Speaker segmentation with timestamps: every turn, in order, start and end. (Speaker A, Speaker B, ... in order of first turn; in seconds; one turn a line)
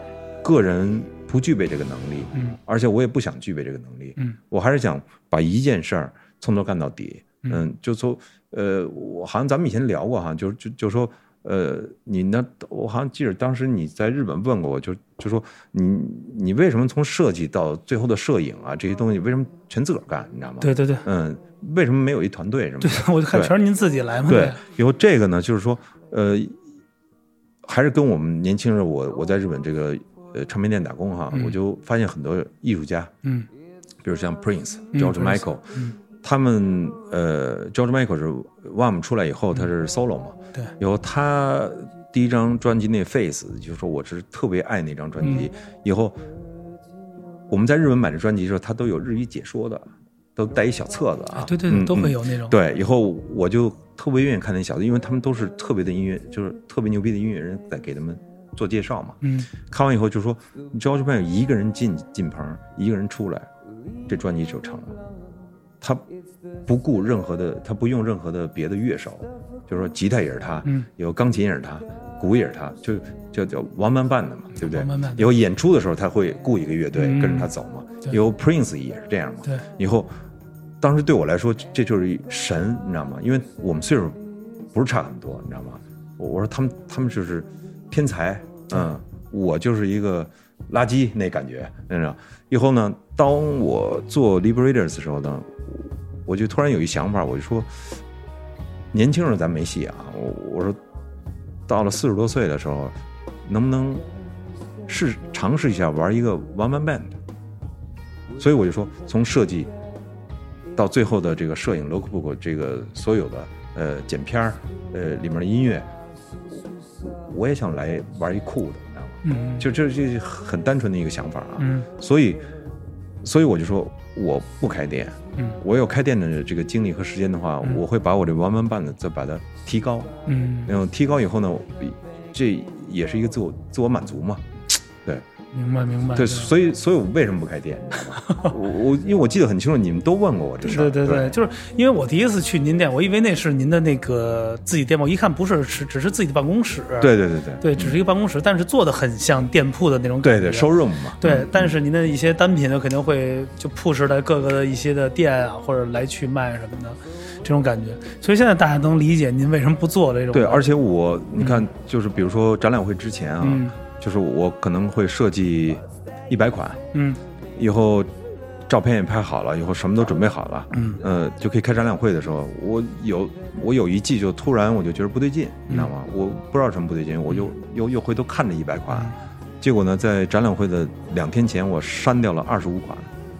Speaker A: 0.4-23.5
Speaker B: 20.6-21.1
Speaker B: 22.8-24.6
Speaker A: 24.3-26.6
Speaker A: 27.6-33.1
Speaker A: 34.0-46.2
Speaker B: 34.9-36.0
Speaker A: 47.5-63.5
Speaker B: 51.4-52.6
Speaker B: 59.2-59.5
Speaker A: 64.1-65.0
Speaker A: 65.8-66.0
Speaker A: 66.7-80.1
Speaker B: 74.7-75.3
Speaker B: 77.0-77.5
Speaker A: 80.8-97.8
Speaker A: 98.9-100.8
Speaker A: 101.7-104.0
Speaker A: 104.9-107.2
Speaker A: 108.3-109.7
Speaker A: 110.8-115.9
Speaker A: 117.0-122.4
Speaker B: 119.2-119.7
Speaker B: 121.6-121.9
Speaker A: 123.2-130.1
Speaker B: 130.3-130.7
Speaker A: 130.7-135.2
Speaker B: 135.5-136.5
Speaker A: 136.1-141.3
Speaker B: 140.6-150.7
Speaker A: 147.0-147.9
Speaker A: 150.2-151.7
Speaker B: 151.2-160.7
Speaker A: 160.3-166.8
Speaker B: 161.4-161.6
Speaker B: 163.4-163.8
Speaker B: 166.9-167.2
Speaker A: 167.6-168.1
Speaker A: 168.7-183.1
Speaker B: 170.7-171.0